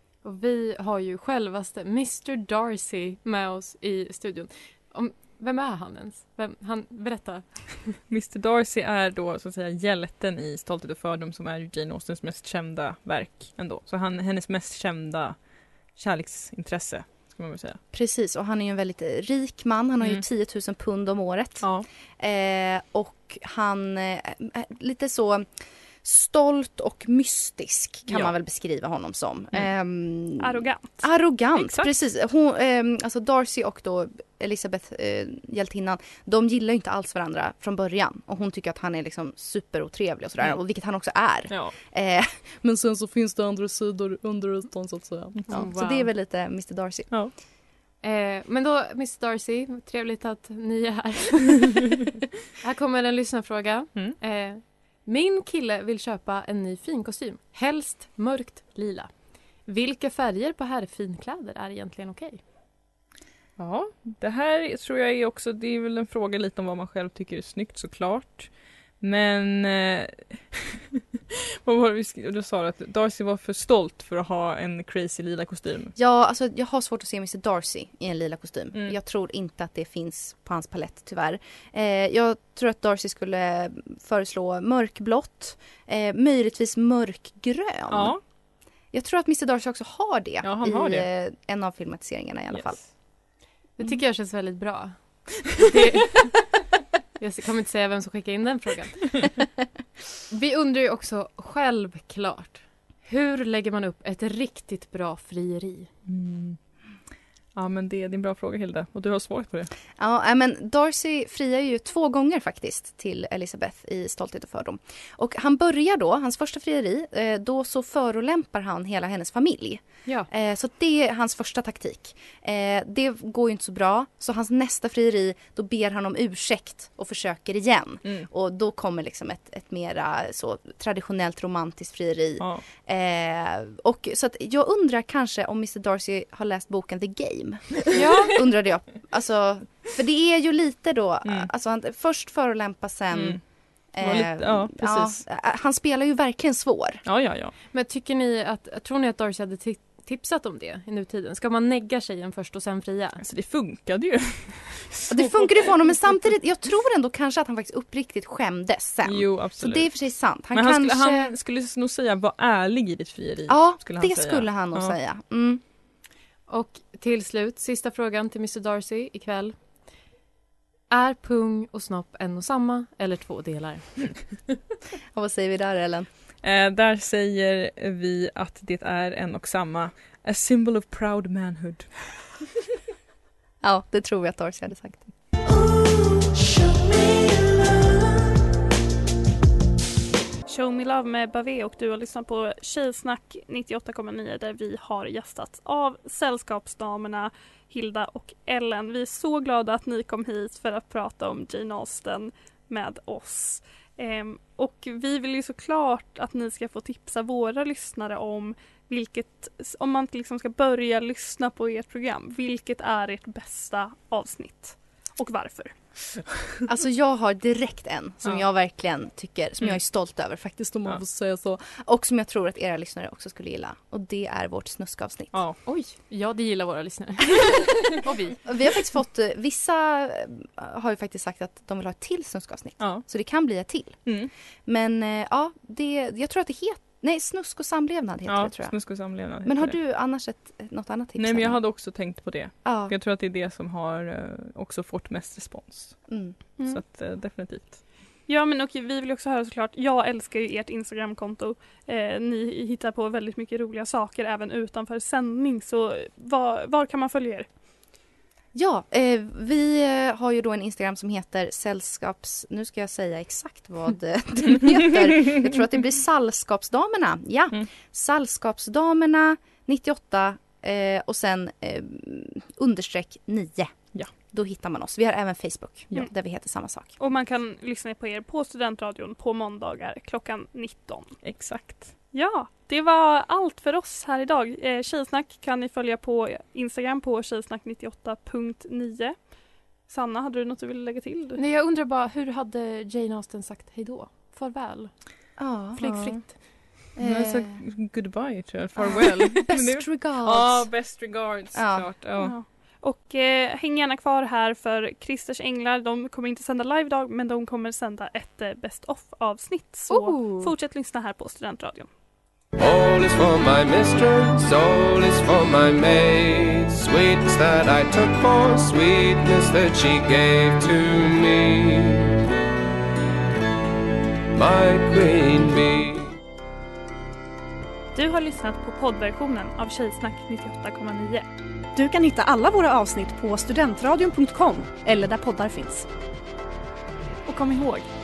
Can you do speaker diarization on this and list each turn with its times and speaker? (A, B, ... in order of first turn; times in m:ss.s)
0:00.2-0:07.9 A
0:08.1-0:17.8 B
0:17.9-0:25.5 C
0:21.6-0:21.8 B
0:26.0-0:47.2 C
0:28.1-0:28.3 B
0:30.4-0:31.0 D
0:31.6-0:31.9 B
0:41.5-0:41.8 B
0:45.5-0:46.1 A
0:48.0-0:52.0 A
0:52.6-0:59.1 A
0:59.6-1:02.4 A
1:03.6-1:11.0 B
1:11.6-1:15.9 B
1:15.9-1:28.2 C
1:27.9-1:28.2 B
1:28.9-1:32.8 C
1:30.4-1:31.0 B
1:32.5-1:32.8 B
1:33.8-1:36.4 A
1:37.2-1:39.4 A
1:40.3-1:45.9 A
1:46.0-1:46.6 B
1:47.5-1:49.7 B
1:50.0-2:27.0 C
2:17.9-2:18.4 A
2:23.1-2:23.4 B
2:24.0-2:25.2 B
2:27.0-2:27.5 B
2:27.7-2:33.2 A
2:33.2-2:36.3 B
2:35.1-2:41.3 C
2:39.0-2:44.9 B
2:43.5-2:45.6 C
2:46.5-2:49.6 A
2:50.9-2:54.4 A
2:55.1-2:56.1 C
2:56.4-3:02.2 B
3:03.6-3:05.1 C
3:10.4-3:36.1 D
3:36.6-3:45.4 C
3:45.3-3:45.6 B
3:45.6-3:48.4 A
3:48.4-4:01.6 C
3:52.8-3:54.3 B
3:58.3-3:59.7 B
4:01.2-4:07.8 B
4:02.6-4:02.9 C
4:06.1-4:06.4 C
4:08.3-4:17.5 D
4:18.5-4:37.0 C
4:37.0-4:41.2 D
4:41.2-4:41.9 B
4:42.1-4:51.4 D
4:51.4-4:56.3 A
4:55.4-4:56.4 C
4:55.8-5:02.3 B
4:57.0-4:57.6 C
4:58.8-5:00.9 C
5:01.5-5:01.9 C
5:02.2-5:11.9 D
5:09.9-5:10.5 A
5:12.6-5:22.1 E
5:24.4-5:26.0 E
5:27.9-5:31.2 D
5:31.7-5:35.9 F
5:37.3-5:37.8 F